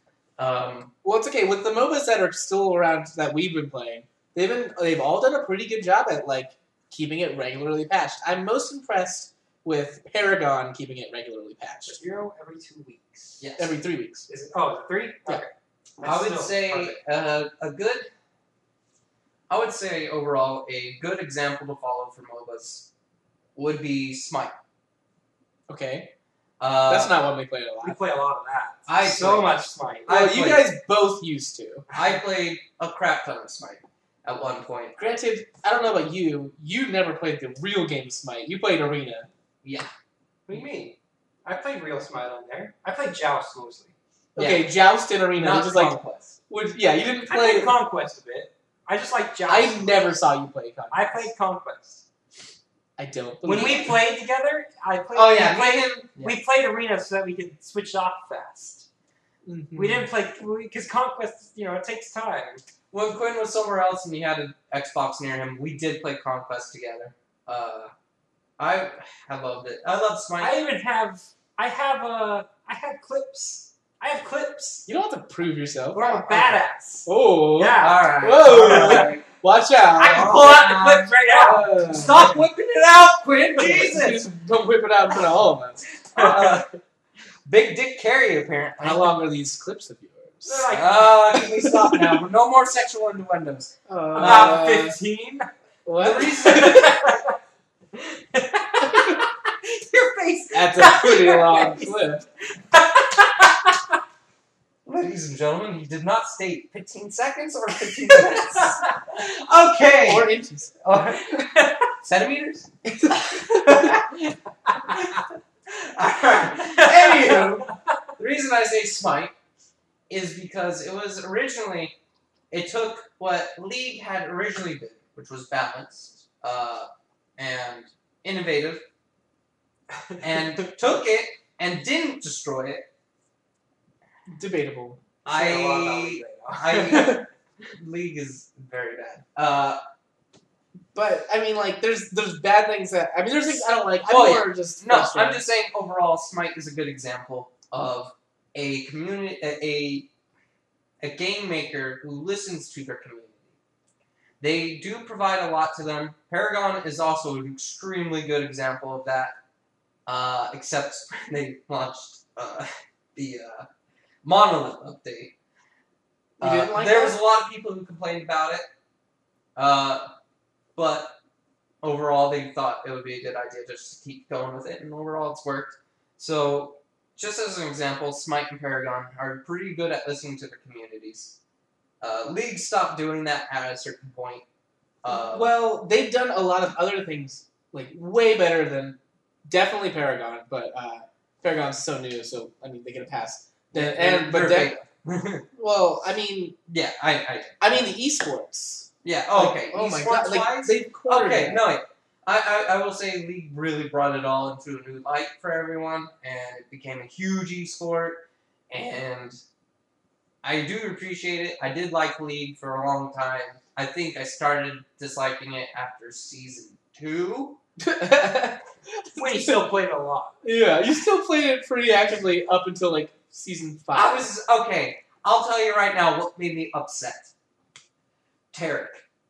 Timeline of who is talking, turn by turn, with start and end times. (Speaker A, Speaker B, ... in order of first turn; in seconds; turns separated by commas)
Speaker A: 0.4-0.9, Speaker B: 1.0-12.0, Speaker C: 11.9-13.4, Speaker A: 13.4-13.8, Speaker B: 13.6-14.3, Speaker C: 14.3-17.0, Speaker A: 16.0-18.1, Speaker A: 19.5-22.9, Speaker A: 23.6-24.5, Speaker B: 25.7-26.1, Speaker A: 26.6-27.2, Speaker B: 26.9-28.0, Speaker C: 27.8-30.1, Speaker A: 28.9-30.7, Speaker B: 30.1-31.9, Speaker A: 31.9-35.0, Speaker B: 35.0-39.3, Speaker A: 39.6-39.9, Speaker C: 40.5-44.0, Speaker B: 44.4-46.0, Speaker A: 44.4-44.7, Speaker A: 45.4-46.4, Speaker B: 46.5-47.7, Speaker C: 47.3-50.2, Speaker B: 49.5-51.3, Speaker C: 50.9-52.0, Speaker B: 53.0-54.0, Speaker C: 53.4-58.9, Speaker A: 55.1-56.4, Speaker B: 59.5-60.1, Speaker C: 59.8-62.6, Speaker A: 62.9-67.9, Speaker A: 68.6-70.6, Speaker C: 70.4-74.8, Speaker B: 74.9-80.3, Speaker C: 75.9-79.1, Speaker A: 77.8-79.2, Speaker C: 80.0-81.7, Speaker A: 80.0-81.1, Speaker B: 81.3-82.4, Speaker A: 81.8-84.2, Speaker B: 83.6-85.8, Speaker A: 86.1-86.7, Speaker C: 86.2-86.7, Speaker A: 87.5-89.2, Speaker B: 88.8-90.7, Speaker C: 90.5-92.1, Speaker A: 90.7-94.6, Speaker B: 93.9-95.0, Speaker C: 94.2-95.5, Speaker B: 95.9-96.9, Speaker A: 96.0-96.9, Speaker C: 96.2-97.4, Speaker C: 97.9-102.1, Speaker B: 100.5-102.2, Speaker C: 102.6-103.8, Speaker A: 104.8-110.3, Speaker C: 108.1-108.9, Speaker B: 110.0-110.8, Speaker A: 110.8-111.3, Speaker C: 111.3-111.9, Speaker A: 112.0-112.7, Speaker B: 113.0-113.9, Speaker A: 113.4-114.0, Speaker C: 113.5-113.9, Speaker A: 114.9-115.2, Speaker A: 115.8-117.7, Speaker C: 116.6-117.7, Speaker B: 117.3-117.6, Speaker A: 118.2-119.3, Speaker A: 120.1-122.0, Speaker A: 122.5-128.8, Speaker C: 130.1-130.4, Speaker A: 130.2-132.9, Speaker B: 134.3-135.0, Speaker A: 135.2-137.2, Speaker C: 135.3-137.2, Speaker A: 137.8-139.8, Speaker B: 140.9-145.4, Speaker A: 144.1-150.1, Speaker A: 151.0-153.5, Speaker A: 154.4-159.3, Speaker A: 160.1-163.7, Speaker A: 164.2-165.3, Speaker A: 166.4-168.7, Speaker B: 166.4-167.2, Speaker A: 169.6-170.1, Speaker A: 170.8-171.1, Speaker A: 171.8-181.4, Speaker A: 182.0-184.4, Speaker A: 185.0-185.5, Speaker B: 185.1-194.8, Speaker A: 193.7-195.4, Speaker B: 195.5-196.6, Speaker A: 196.7-197.9, Speaker B: 197.6-201.6, Speaker A: 199.0-209.4, Speaker A: 210.4-217.6, Speaker B: 217.8-219.7, Speaker C: 219.2-220.4, Speaker B: 220.4-224.3, Speaker A: 223.9-227.3, Speaker A: 228.5-229.1